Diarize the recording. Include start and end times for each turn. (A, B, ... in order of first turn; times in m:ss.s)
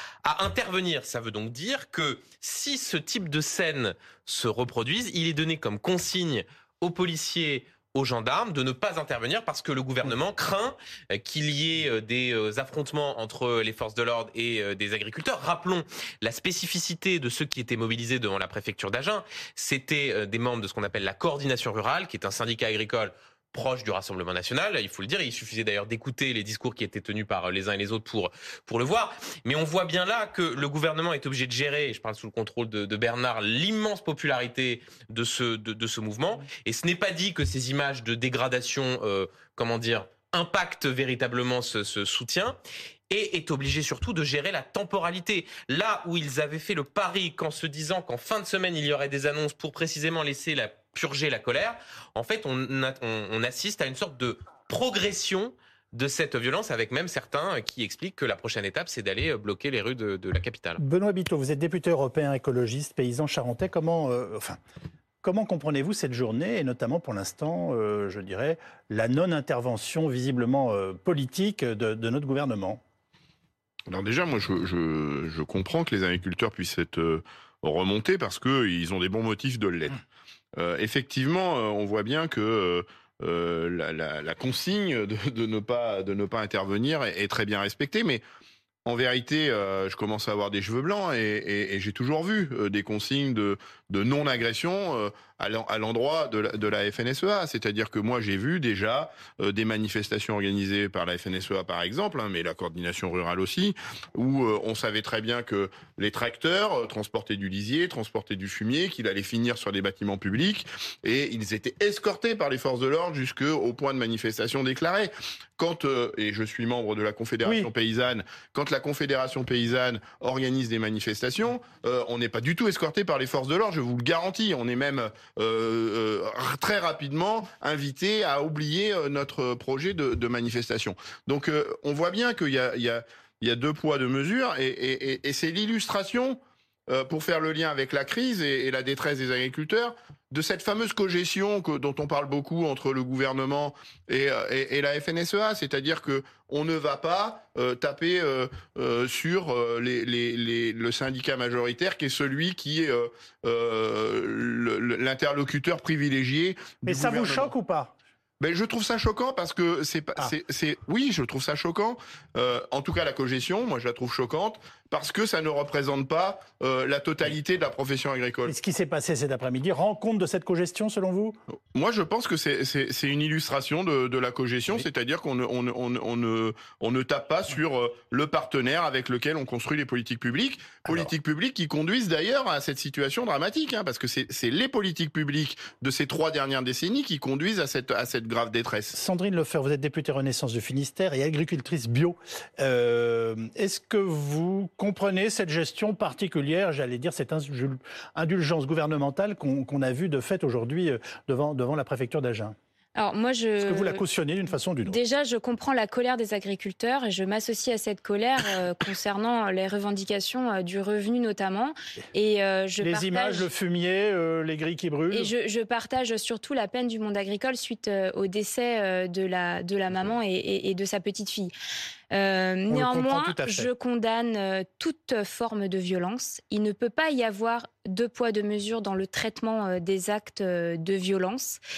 0:00.2-0:42.6 A
0:43.1-1:00.8 A
1:00.8-1:04.6 B
1:05.2-1:12.8 B
1:13.9-1:20.0 C
1:20.6-1:28.2 C
1:28.8-2:37.5 C
2:36.8-2:38.0 B
2:38.4-2:48.6 C
2:48.5-2:51.4 B
2:51.7-3:09.0 C
3:08.9-3:22.6 B
3:23.0-3:24.0 D
3:23.6-3:25.0 B
3:24.9-3:33.5 D
3:32.8-3:35.3 B
3:35.1-3:41.5 D
3:42.1-3:51.6 D
3:42.7-3:43.7 B